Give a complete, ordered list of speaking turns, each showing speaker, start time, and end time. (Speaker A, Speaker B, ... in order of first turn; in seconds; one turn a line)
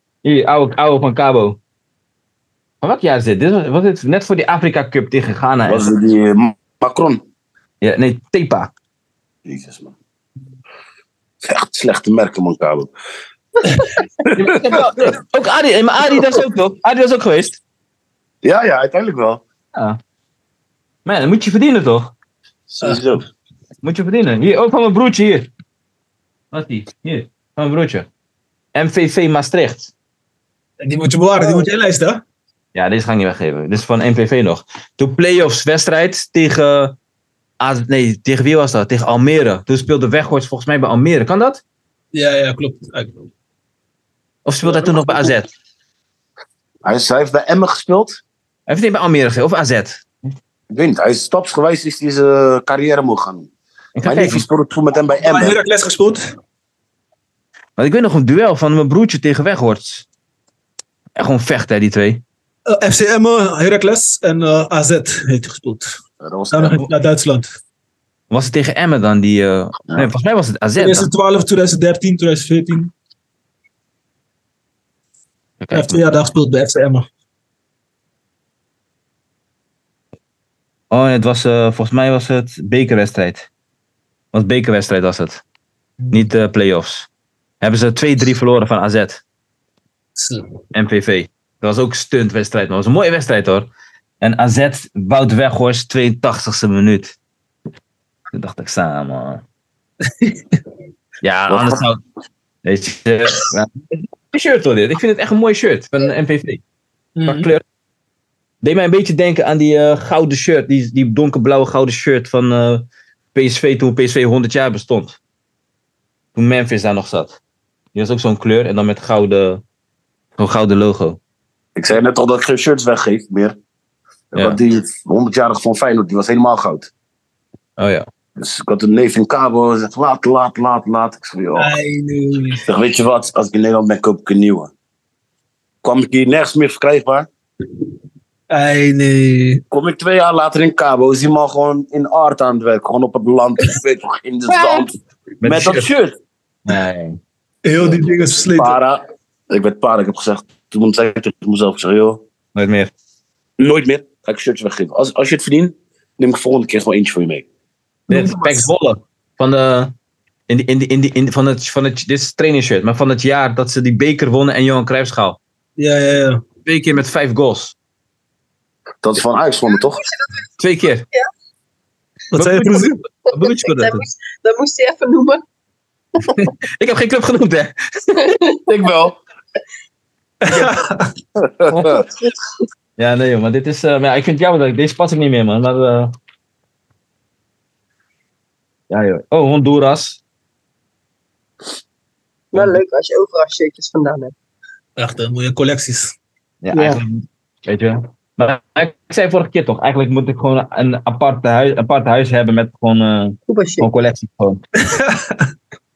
Speaker A: 0.2-1.6
Speaker A: 2.8-5.9
Speaker B: 5.7-7.2
Speaker A: 7.8-8.7
Speaker B: 9.4-9.9
Speaker B: 11.4-12.9
Speaker B: 14.2-14.8
Speaker A: 14.3-17.6
Speaker B: 18.4-19.4
Speaker A: 21.0-22.1
Speaker B: 22.7-23.2
Speaker A: 23.8-25.5
Speaker A: 26.5-28.1
Speaker A: 28.7-29.9
Speaker C: 30.8-32.2
Speaker D: 31.4-31.7
Speaker A: 32.7-36.9
Speaker A: 37.6-41.6
Speaker C: 42.1-43.3
Speaker A: 44.4-45.5
Speaker B: 46.8-48.2
Speaker A: 48.7-50.3
Speaker B: 50.7-53.5
Speaker A: 54.0-54.4
Speaker B: 54.0-55.6
Speaker C: 55.2-56.3
Speaker A: 57.8-60.0
Speaker A: 61.1-62.2
Speaker C: 62.7-65.9
Speaker B: 66.2-66.9
Speaker C: 66.5-67.5
Speaker A: 68.3-71.1
Speaker C: 70.8-72.9
Speaker A: 75.6-76.0
Speaker C: 75.7-77.1
Speaker A: 80.9-83.5
Speaker A: 84.3-85.4
Speaker C: 86.0-86.2
Speaker A: 86.1-87.1
Speaker A: 87.6-89.2
Speaker C: 90.2-90.5
Speaker A: 90.7-93.7
Speaker A: 94.2-97.2
Speaker A: 98.3-99.4
Speaker C: 100.2-100.6
Speaker A: 101.2-102.0
Speaker B: 101.5-101.8
Speaker A: 102.6-106.6
Speaker C: 107.2-107.5
Speaker A: 107.2-107.6
Speaker A: 108.6-115.2
Speaker A: 116.3-117.4
Speaker A: 117.9-119.6
Speaker A: 120.4-121.2
Speaker B: 121.8-123.5
Speaker B: 124.3-126.9
Speaker A: 127.8-128.1
Speaker B: 128.4-131.7
Speaker C: 131.6-132.6
Speaker B: 132.7-134.7
Speaker B: 135.8-137.3
Speaker C: 138.5-139.6
Speaker B: 139.7-146.1
Speaker A: 145.4-145.9
Speaker A: 146.7-147.2
Speaker C: 147.6-148.8
Speaker B: 147.8-152.2
Speaker A: 152.5-152.9
Speaker B: 153.6-157.4
Speaker C: 158.1-158.7
Speaker A: 158.1-159.9
Speaker A: 160.5-165.4
Speaker C: 165.8-166.4
Speaker A: 166.6-167.7
Speaker B: 169.0-170.0
Speaker D: 169.7-170.4
Speaker A: 170.6-171.0
Speaker C: 172.3-173.0
Speaker A: 172.3-174.0
Speaker D: 173.4-175.4
Speaker A: 176.3-178.3
Speaker D: 178.3-178.6
Speaker B: 178.7-179.2
Speaker C: 180.4-181.1
Speaker B: 181.4-182.0
Speaker A: 181.7-182.0
Speaker A: 183.0-186.1
Speaker A: 188.9-190.2
Speaker D: 192.5-194.3
Speaker A: 192.5-192.8
Speaker C: 195.0-196.1
Speaker A: 196.6-204.6
Speaker D: 196.7-197.0
Speaker D: 203.5-203.9
Speaker C: 204.9-205.4